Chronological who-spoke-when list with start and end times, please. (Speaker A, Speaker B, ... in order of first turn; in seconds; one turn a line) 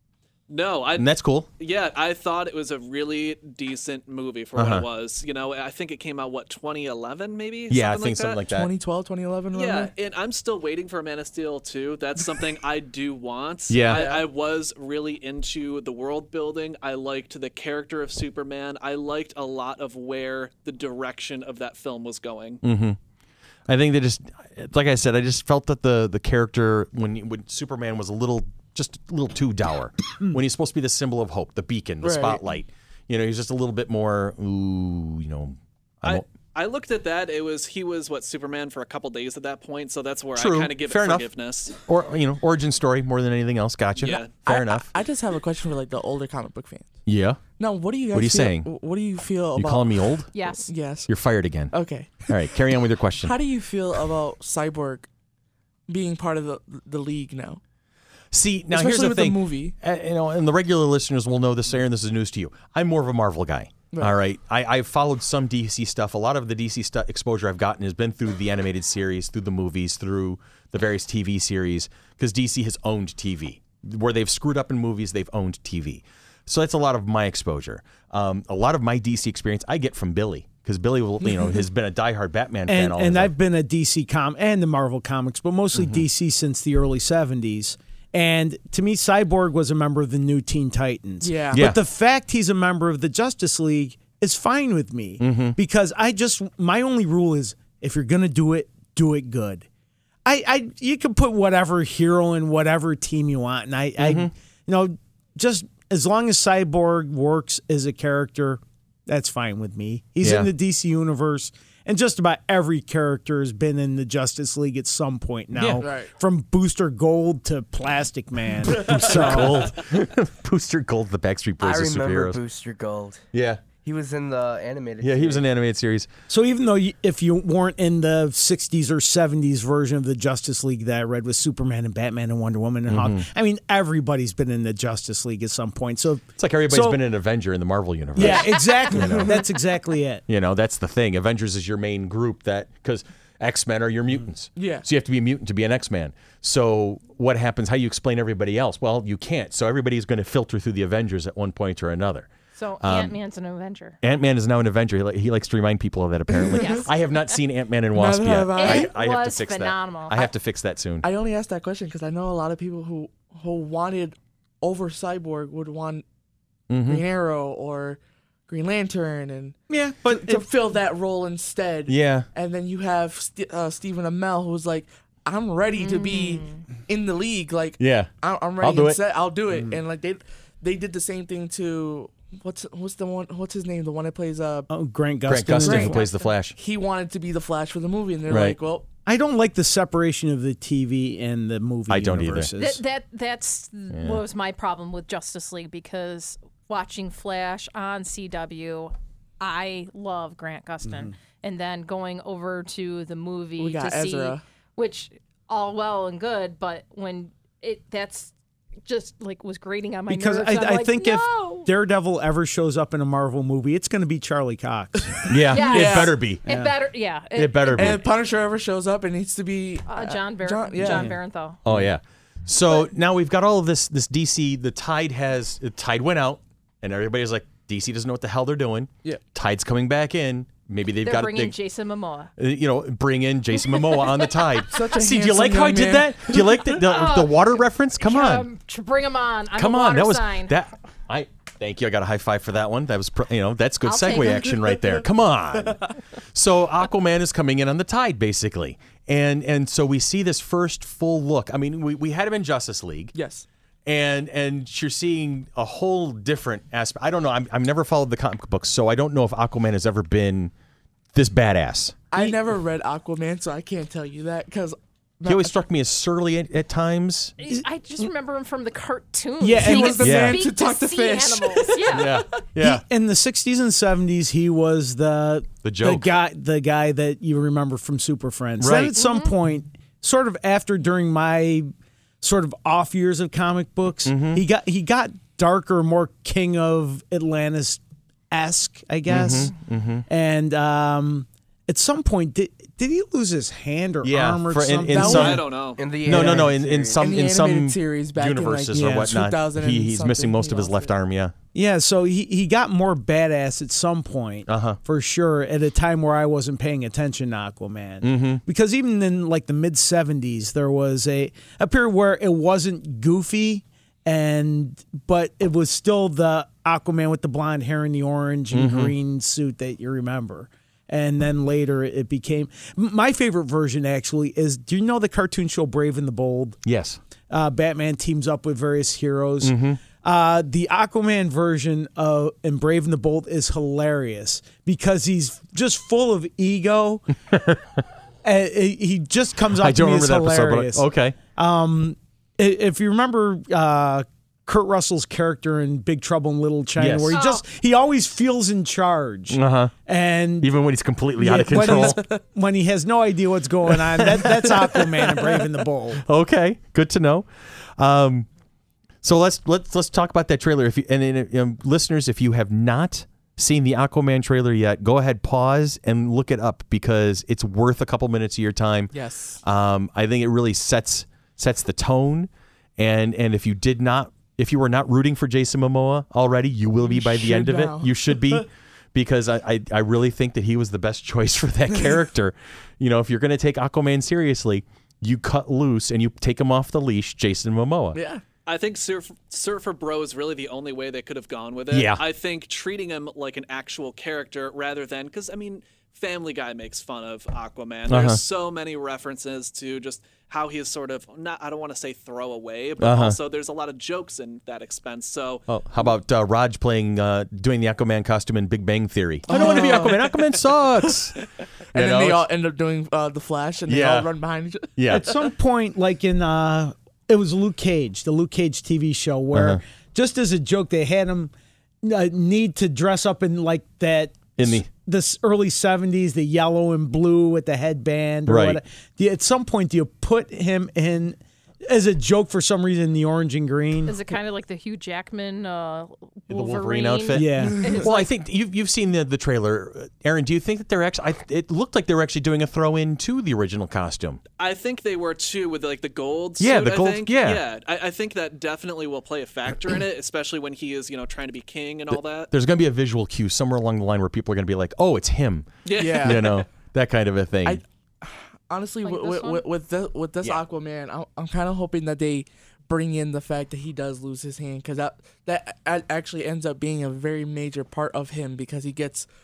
Speaker A: 0.5-8.4
Speaker B: 0.9-1.5
Speaker B: 4.5-4.8
Speaker B: 7.7-8.7
Speaker C: 8.5-9.9
Speaker A: 9.5-22.6
Speaker B: 13.7-14.1
Speaker C: 13.9-14.2
Speaker B: 22.6-23.0
Speaker B: 23.7-36.2
Speaker C: 32.0-32.4
Speaker A: 36.0-41.8
Speaker B: 40.3-41.3
Speaker B: 41.9-44.9
Speaker A: 44.0-44.3
Speaker C: 44.4-46.9
Speaker B: 47.0-47.4
Speaker C: 47.6-51.1
Speaker B: 48.1-48.7
Speaker B: 49.5-50.3
Speaker D: 50.3-50.7
Speaker B: 51.1-53.4
Speaker C: 51.7-52.4
Speaker C: 53.2-55.1
Speaker C: 55.9-57.6
Speaker B: 58.3-83.3
Speaker C: 58.7-59.7
Speaker C: 81.2-81.6
Speaker E: 82.7-99.7
Speaker B: 85.7-86.0
Speaker C: 91.2-91.6
Speaker B: 91.5-91.8
Speaker B: 95.2-95.6
Speaker E: 100.2-119.7
Speaker B: 104.0-104.3
Speaker B: 110.2-110.5
Speaker B: 115.5-115.8
Speaker C: 115.8-116.1
Speaker B: 118.7-122.4
Speaker F: 121.6-123.2
Speaker B: 123.3-123.6
Speaker F: 123.8-125.4
Speaker B: 125.0-126.1
Speaker E: 126.3-137.0
Speaker B: 132.9-133.2
Speaker B: 136.4-139.4
Speaker E: 138.2-140.2
Speaker D: 138.2-139.0
Speaker C: 139.0-139.3
Speaker B: 140.3-152.3
Speaker C: 144.6-144.8
Speaker D: 152.5-154.0
Speaker B: 152.8-153.2
Speaker B: 154.0-161.1
Speaker D: 156.6-156.9
Speaker C: 157.9-158.9
Speaker D: 158.5-160.3
Speaker C: 161.0-166.0
Speaker B: 166.7-167.0
Speaker C: 166.8-169.6
Speaker E: 169.7-170.4
Speaker C: 170.1-184.7
Speaker B: 171.9-172.3
Speaker D: 175.7-176.7
Speaker B: 177.8-179.0
Speaker E: 184.7-185.9
Speaker B: 185.3-186.6
Speaker C: 185.6-188.8
Speaker D: 185.9-186.3
Speaker B: 188.3-188.6
Speaker E: 189.0-192.8
Speaker B: 191.9-192.5
Speaker D: 192.6-208.3
Speaker B: 193.9-194.2
Speaker C: 203.6-204.4
Speaker D: 208.8-211.7
Speaker E: 210.1-215.3
Speaker B: 215.3-216.5
Speaker C: 215.3-216.1
Speaker D: 215.5-218.0
Speaker E: 216.4-216.7
Speaker B: 217.3-218.0
Speaker C: 217.7-221.1
Speaker D: 219.8-221.6
Speaker E: 220.8-221.2
Speaker B: 221.6-231.6
Speaker D: 231.0-232.3
Speaker B: 232.4-238.5
Speaker C: 234.7-236.8
Speaker D: 236.8-240.5
Speaker B: 239.5-253.1
Speaker D: 243.8-244.6
Speaker C: 245.6-245.9
Speaker C: 253.1-253.4
Speaker B: 253.8-260.5
Speaker B: 261.1-262.0
Speaker C: 262.1-265.5
Speaker B: 265.2-267.3
Speaker D: 267.4-272.2
Speaker E: 267.5-268.0
Speaker E: 269.4-270.0
Speaker C: 269.6-272.1
Speaker B: 270.0-270.4
Speaker B: 271.9-272.8
Speaker E: 272.6-281.7
Speaker B: 275.6-276.1
Speaker B: 278.6-279.0
Speaker D: 278.9-279.3
Speaker E: 282.2-287.8
Speaker B: 284.0-284.4
Speaker E: 288.3-289.5
Speaker B: 289.1-290.1
Speaker E: 290.1-295.4
Speaker B: 294.0-301.3
Speaker C: 294.9-295.3
Speaker A: 295.1-295.8
Speaker F: 295.8-297.1
Speaker E: 296.1-296.5
Speaker C: 297.0-300.9
Speaker E: 298.8-299.0
Speaker E: 301.5-326.6
Speaker B: 304.5-304.8
Speaker B: 308.0-308.4
Speaker B: 318.5-318.9
Speaker B: 326.6-327.0
Speaker E: 327.3-337.1
Speaker B: 329.4-329.8
Speaker B: 337.3-337.6
Speaker E: 338.2-350.5
Speaker B: 339.5-341.2
Speaker B: 346.8-347.1
Speaker D: 347.1-347.4
Speaker B: 349.3-349.7
Speaker B: 350.4-352.0
Speaker E: 351.2-356.0
Speaker C: 351.3-352.1
Speaker B: 353.7-358.3
Speaker B: 359.0-388.0
Speaker C: 368.9-369.4
Speaker C: 376.8-378.4
Speaker C: 387.9-388.2
Speaker A: 388.4-405.4
Speaker B: 391.7-392.0
Speaker B: 397.9-398.2
Speaker B: 402.8-403.2
Speaker B: 405.5-411.2
Speaker C: 409.3-410.4
Speaker B: 411.7-412.3
Speaker C: 411.7-414.9
Speaker B: 413.7-414.1
Speaker B: 414.8-415.1
Speaker E: 414.9-421.3
Speaker B: 419.3-419.6
Speaker E: 421.8-434.0
Speaker B: 424.4-424.7
Speaker B: 428.3-428.6
Speaker D: 433.9-438.1
Speaker B: 436.3-444.2
Speaker E: 437.1-437.6
Speaker A: 444.4-452.3
Speaker B: 446.4-447.4
Speaker B: 451.9-457.6
Speaker A: 455.6-456.4
Speaker C: 455.8-456.2
Speaker C: 457.4-469.1
Speaker D: 458.8-459.4